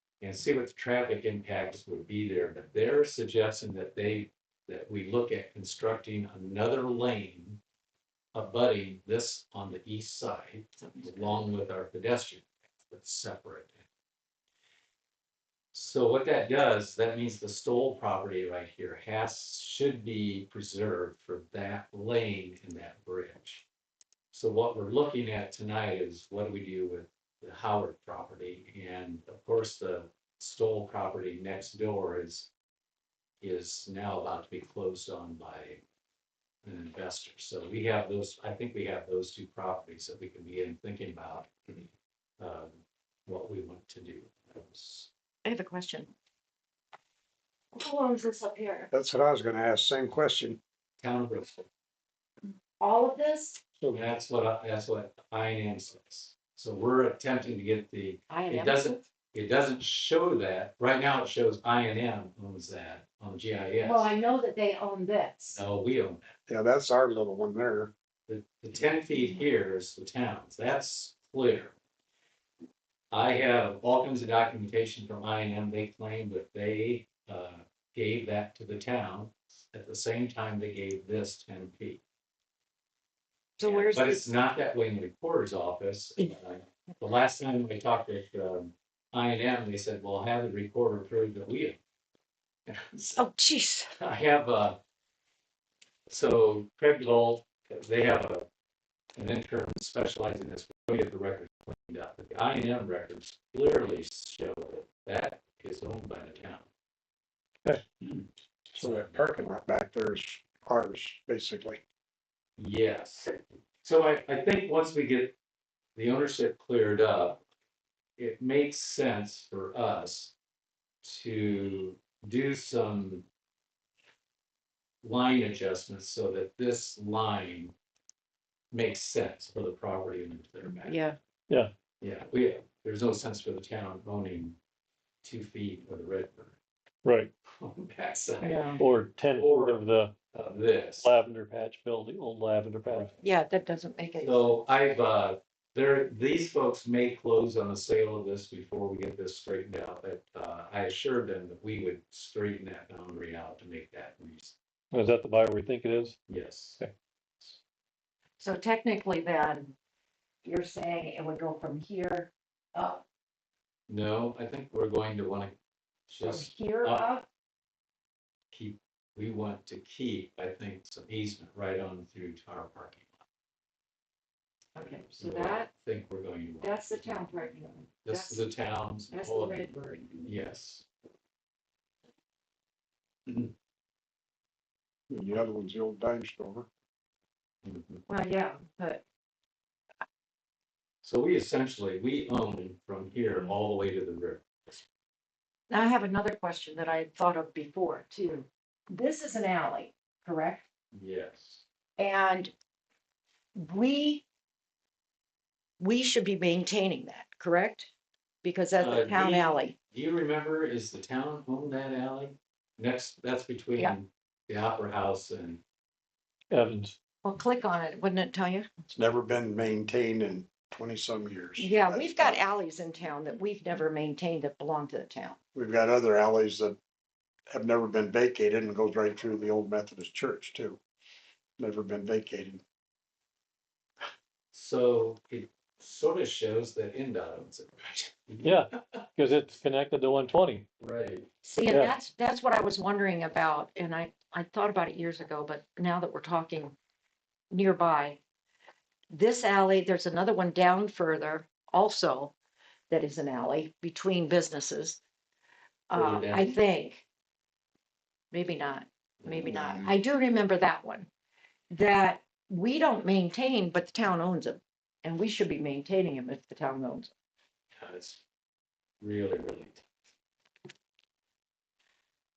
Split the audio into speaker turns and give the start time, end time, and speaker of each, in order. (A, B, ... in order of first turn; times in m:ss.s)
0:00.2-0:07.6 A
0:08.3-0:13.8 A
0:15.7-0:23.7 A
0:24.3-0:32.5 A
0:33.4-0:35.8 A
0:36.6-0:41.5 A
0:42.4-0:45.1 A
0:45.4-0:46.1 B
0:47.7-0:48.9 B
0:48.9-0:50.6 C
0:51.0-0:51.7 A
0:52.8-0:53.6 B
0:53.9-1:04.1 A
0:58.3-0:59.0 B
1:03.8-1:05.6 B
1:05.5-1:06.4 A
1:06.5-1:07.9 C
1:08.3-1:11.8 A
1:13.1-1:22.0 A
1:23.6-1:24.2 B
1:23.6-1:31.8 A
1:33.0-1:33.9 B
1:34.0-1:34.8 A
1:36.1-1:38.5 A
1:39.2-1:46.7 A
1:48.7-1:51.8 C
1:52.6-1:55.4 A
1:56.0-1:57.4 A
1:58.2-2:00.3 A
2:01.0-2:03.3 A
2:05.0-2:07.7 A
2:08.7-2:11.0 A
2:10.8-2:11.2 B
2:12.0-2:14.6 A
2:15.2-2:16.6 A
2:17.0-2:17.3 D
2:17.5-2:19.8 A
2:18.4-2:18.8 B
2:18.8-2:20.2 D
2:20.3-2:21.1 A
2:21.0-2:23.1 D
2:23.2-2:24.5 B
2:24.2-2:34.6 A
2:34.9-2:36.2 D
2:36.3-2:36.8 A
2:38.4-2:39.8 B
2:40.4-2:43.0 B
2:43.9-2:45.5 A
2:46.1-2:47.1 A
2:46.2-2:47.2 B
2:48.5-2:53.1 A
2:54.8-2:55.7 B
2:55.1-2:56.8 A
2:56.6-2:58.4 B
2:58.0-3:00.9 A
2:59.1-3:00.1 B
3:03.3-3:03.5 A
3:05.1-3:06.7 C
3:07.6-3:08.0 A
3:08.1-3:09.0 B
3:11.0-3:14.8 A
3:15.7-3:20.7 B
3:20.9-3:21.6 A
3:22.0-3:22.5 B
3:23.6-3:24.2 B
3:25.8-3:27.9 B
3:28.4-3:29.8 B
3:28.8-3:35.6 A
3:36.5-3:37.0 D
3:37.2-3:38.7 B
3:38.9-3:42.4 C
3:41.6-3:45.4 B
3:45.5-3:46.8 C
3:47.5-3:50.8 C
3:51.6-3:52.6 C
3:54.5-3:59.0 A
3:58.4-4:00.7 D
4:00.8-4:01.3 A
4:01.4-4:06.8 B
4:01.7-4:01.9 D
4:07.5-4:08.2 B
4:09.1-4:12.3 B
4:12.9-4:15.0 B
4:15.9-4:17.0 B
4:15.9-4:16.6 A
4:18.3-4:21.1 B
4:19.2-4:19.9 A
4:21.7-4:27.1 B
4:27.8-4:28.2 A
4:29.0-4:29.8 A